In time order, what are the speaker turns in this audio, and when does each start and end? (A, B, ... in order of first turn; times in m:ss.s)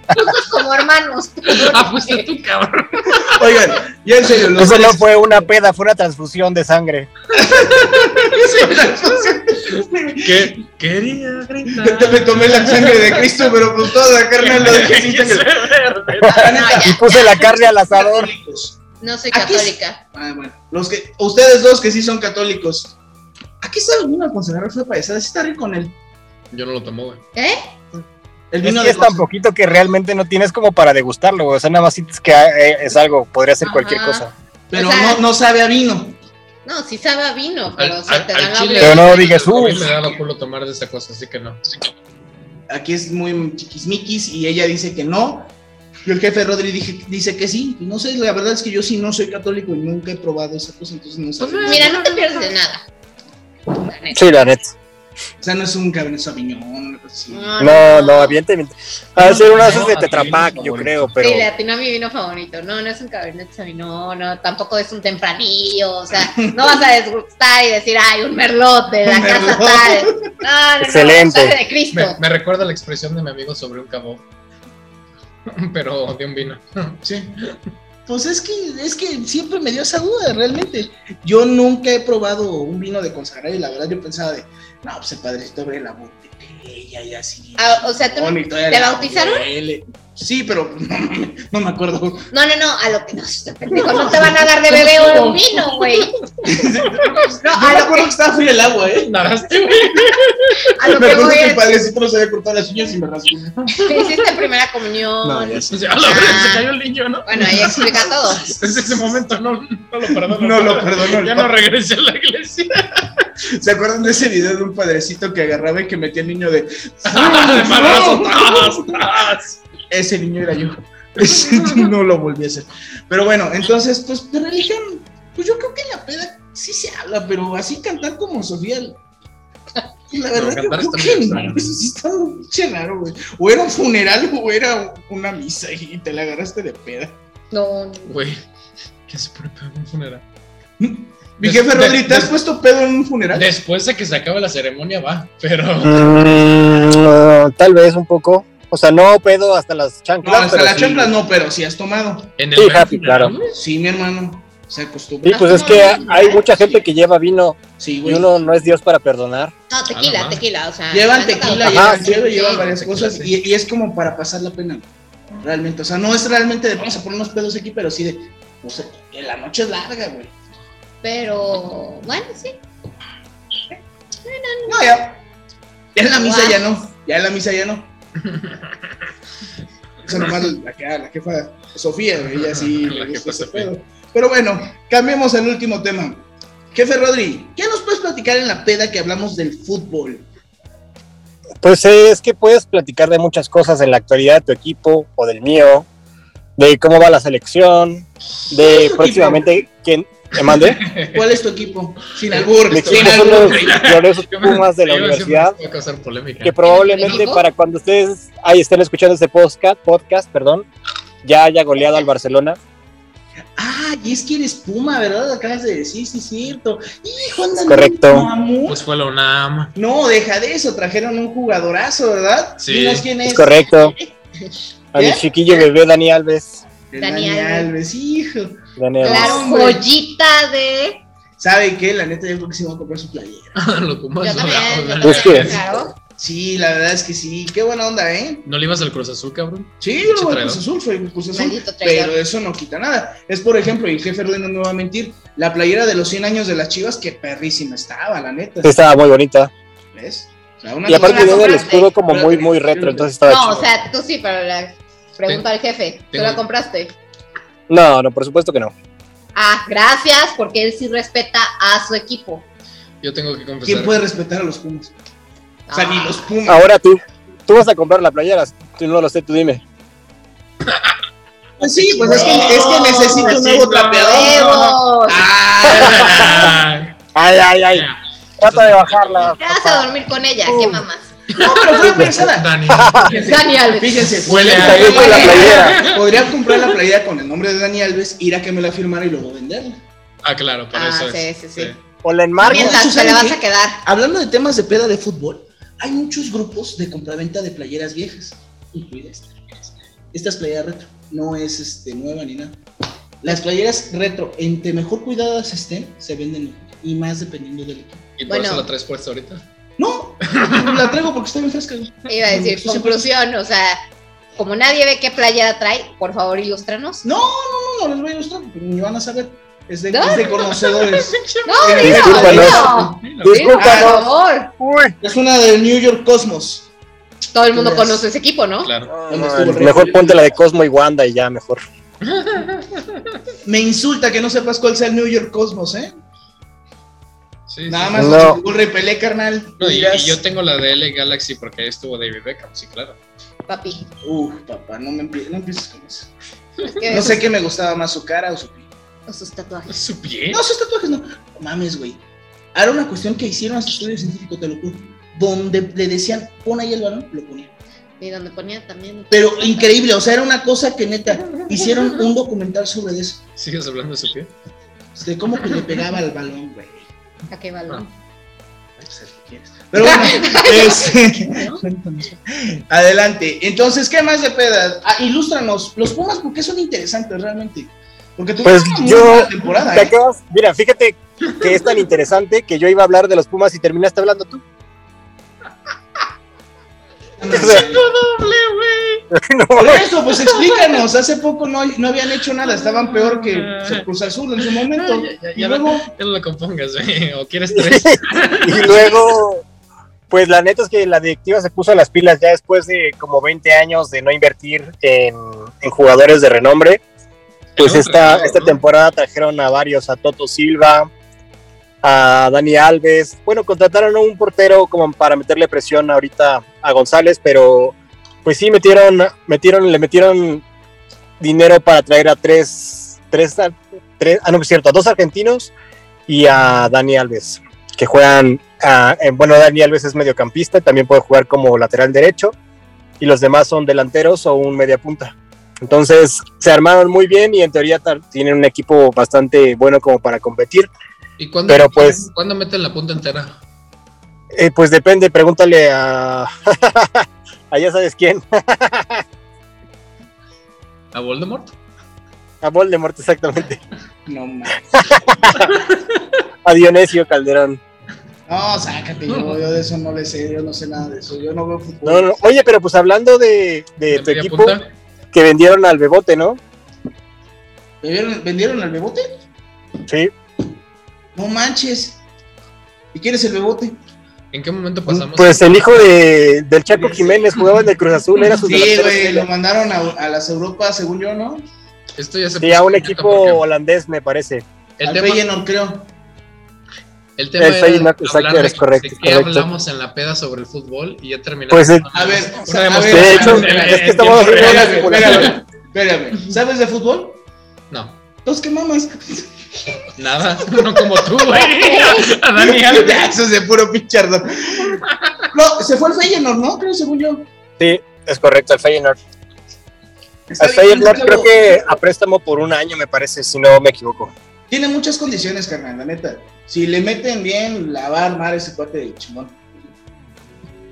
0:00.1-0:02.3 A
0:01.5-0:03.6 B
0:03.2-0:05.5 C
0:04.5-0:07.1 D
0:07.3-0:10.6 C
0:07.4-0:09.2 B
0:10.2-0:13.6 B
0:11.7-0:15.6 C
0:14.4-0:16.6 B
0:16.2-0:18.3 D
0:16.3-0:17.4 A
0:16.3-0:18.8 C
0:19.0-0:20.0 A
0:19.3-0:23.0 C
0:23.6-0:25.9 C
0:26.5-0:27.2 B
0:27.4-0:27.7 A
0:28.5-0:29.2 C
0:28.6-0:34.3 D
0:33.6-0:35.2 A
0:34.7-0:36.2 C
0:36.6-0:39.3 A
0:37.8-0:41.6 B
0:38.8-0:40.0 D
0:42.7-0:45.5 C
0:46.0-0:51.9 C
0:51.4-0:52.5 B
0:51.6-0:52.8 A
0:53.7-0:54.2 A
0:54.1-0:54.7 D
0:55.4-0:57.5 C
0:57.3-0:58.4 A
0:57.6-1:01.5 D
0:59.2-1:01.1 B
1:00.1-1:00.7 C
1:01.2-1:12.2 A
1:06.3-1:06.7 C
1:09.0-1:10.4 C
1:10.8-1:11.5 D
1:11.9-1:14.2 B
1:15.5-1:17.6 B
1:17.0-1:17.4 C
1:18.1-1:32.3 C
1:27.6-1:29.5 A
1:32.3-1:36.2 A
1:33.7-1:35.7 C
1:36.4-1:39.1 C
1:36.9-1:37.2 B
1:37.2-1:38.1 A
1:39.0-1:40.7 B
1:40.7-1:41.8 A
1:40.8-1:43.9 C
1:43.6-1:44.1 B
1:43.8-1:46.7 A
1:45.2-1:45.8 C
1:45.7-1:53.3 B
1:47.2-1:48.6 A
1:47.4-1:48.1 C
1:50.2-1:51.5 C
1:53.6-1:58.9 C
1:57.0-1:59.6 B
1:59.9-2:09.0 C
2:01.4-2:01.9 B
2:10.1-2:17.2 C
2:10.3-2:11.7 B
2:17.5-2:18.1 A
2:18.1-2:18.4 B
2:19.1-2:20.2 B
2:20.8-2:23.5 C
2:21.4-2:22.4 B
2:23.3-2:26.9 B
2:25.8-2:31.1 D
2:30.2-2:32.3 C
2:32.4-2:33.5 B
2:32.6-2:33.3 D
2:33.5-2:36.9 C
2:35.2-2:39.5 D
2:35.5-2:36.4 A
2:37.8-2:38.5 C
2:39.7-2:42.7 A
2:39.9-2:40.4 B
2:40.9-2:44.9 C
2:41.6-2:42.0 D
2:42.4-2:43.3 B
2:45.4-2:50.3 C
2:51.0-2:52.6 A
2:54.2-2:55.0 A
2:54.7-2:55.2 C
2:56.0-2:57.9 C
2:56.1-2:56.6 A
2:58.3-2:58.6 B
3:00.0-3:10.3 C
3:02.3-3:03.7 B
3:11.6-3:15.9 D
3:16.6-3:20.8 D
3:18.5-3:19.5 C
3:20.4-3:21.2 B
3:21.0-3:23.9 C
3:22.3-3:26.6 B
3:22.7-3:25.6 D
3:26.4-3:30.7 D
3:26.6-3:27.5 A
3:31.2-3:32.6 D
3:33.6-3:38.8 C
3:37.6-3:38.3 D
3:38.7-3:39.7 B
3:39.8-3:43.7 C
3:42.6-3:43.1 B
3:43.2-3:44.0 D
3:43.8-3:44.5 A
3:44.9-3:46.6 D
3:45.0-3:45.2 C
3:46.9-3:49.8 C
3:47.0-3:47.7 A
3:48.8-3:49.5 D
3:49.0-3:51.0 A
3:51.4-3:53.6 C
3:53.6-3:55.6 B
3:54.2-3:56.0 A
3:55.0-3:55.6 D
3:56.2-3:58.4 C
3:58.5-4:00.6 B
3:59.8-4:08.8 C
4:01.3-4:02.2 A
4:08.6-4:09.5 D
4:09.9-4:13.1 C
4:10.9-4:13.7 D
4:10.9-4:11.9 A
4:13.2-4:16.9 A
4:16.1-4:16.4 B
4:17.7-4:18.7 D
4:19.4-4:22.5 A
4:23.0-4:24.0 B
4:23.6-4:24.9 C
4:25.7-4:26.2 A
4:25.7-4:26.7 C
4:26.5-4:29.6 D
4:31.6-4:36.6 C
4:31.9-4:34.8 B
4:32.0-4:33.4 A
4:34.0-4:35.2 A
4:35.6-4:36.9 B
4:35.7-4:36.5 D
4:37.2-4:37.9 D
4:37.7-4:39.4 B
4:38.4-4:39.9 D
4:39.3-4:41.1 A
4:40.5-4:40.8 D
4:41.3-4:43.4 B
4:41.4-4:49.8 C
4:41.8-4:43.1 D
4:43.0-4:45.7 A
4:44.2-4:46.8 B
4:44.5-4:45.9 D
4:50.2-4:51.8 B
4:50.7-4:51.7 A
4:52.0-4:52.9 D
4:52.4-4:53.8 A
4:52.4-4:59.4 C
5:00.1-5:02.6 C
5:03.2-5:08.0 C
5:08.2-5:09.4 B
5:08.3-5:08.7 A
5:09.8-5:13.1 C
5:10.3-5:10.9 B
5:12.1-5:13.8 A
5:14.4-5:17.0 A
5:17.0-5:23.0 C
5:19.9-5:20.4 A
5:20.1-5:23.4 B
5:21.4-5:24.5 A
5:21.8-5:24.1 D
5:23.6-5:24.1 C
5:24.6-5:25.0 D
5:25.0-5:26.7 C
5:27.3-5:28.7 A
5:27.5-5:28.0 C
5:28.6-5:28.9 B
5:29.0-5:31.6 D
5:29.1-5:30.3 C
5:32.0-5:33.2 B
5:33.4-5:36.0 C
5:37.5-5:38.2 B
5:37.7-5:40.2 C
5:38.0-5:38.4 D
5:39.6-5:43.0 B
5:43.5-5:43.9 A
5:44.0-5:46.1 C
5:46.6-5:47.3 A
5:46.9-5:48.7 C
5:49.1-5:49.8 A
5:49.7-5:50.4 B
5:50.3-5:52.0 C
5:52.6-5:57.5 C
5:58.0-5:59.7 A
5:59.1-6:03.2 C
6:03.4-6:04.3 B
6:05.0-6:06.9 C
6:07.3-6:07.9 A
6:08.8-6:19.9 C
6:09.8-6:11.6 A
6:18.4-6:24.4 D
6:27.2-6:27.9 C
6:27.3-6:29.1 B
6:27.3-6:27.7 D
6:29.1-6:29.9 D
6:29.6-6:35.9 C
6:30.2-6:30.7 B
6:32.4-6:33.9 B
6:34.7-6:39.0 B
6:37.5-6:39.4 D
6:40.1-6:46.8 D
6:47.6-6:48.6 B
6:47.6-6:50.9 D
6:51.8-7:00.4 D
7:01.2-7:05.5 D
7:06.1-7:12.4 D
7:13.0-7:20.7 D
7:21.2-7:23.4 B
7:21.5-7:22.1 D
7:24.3-7:29.0 D
7:30.9-7:31.5 B
7:32.4-7:33.6 D
7:34.1-7:35.0 C
7:34.7-7:35.5 D
7:35.5-7:36.2 B
7:36.4-7:37.6 D
7:38.3-7:42.2 C
7:41.8-7:44.6 D
7:43.9-7:44.7 B
7:45.1-7:46.4 D
7:47.8-7:49.1 C
7:51.2-7:52.0 C
7:52.9-7:53.8 C
7:54.3-7:55.8 B
7:55.1-7:59.3 D
7:56.7-7:57.3 C
7:58.4-8:01.4 C
8:02.0-8:03.4 B
8:02.4-8:04.4 D
8:04.8-8:05.2 B
8:04.8-8:05.9 C
8:07.2-8:15.4 B
8:07.4-8:09.5 D
8:11.5-8:11.9 D
8:11.9-8:17.2 C
8:12.8-8:15.4 D
8:17.7-8:18.0 B
8:18.2-8:19.3 C
8:20.0-8:23.1 B
8:20.4-8:21.2 C
8:21.6-8:22.0 A
8:22.4-8:27.3 C
8:24.9-8:25.2 B
8:27.6-8:29.0 D
8:30.3-8:31.8 C
8:30.4-8:34.1 D
8:34.5-8:39.4 C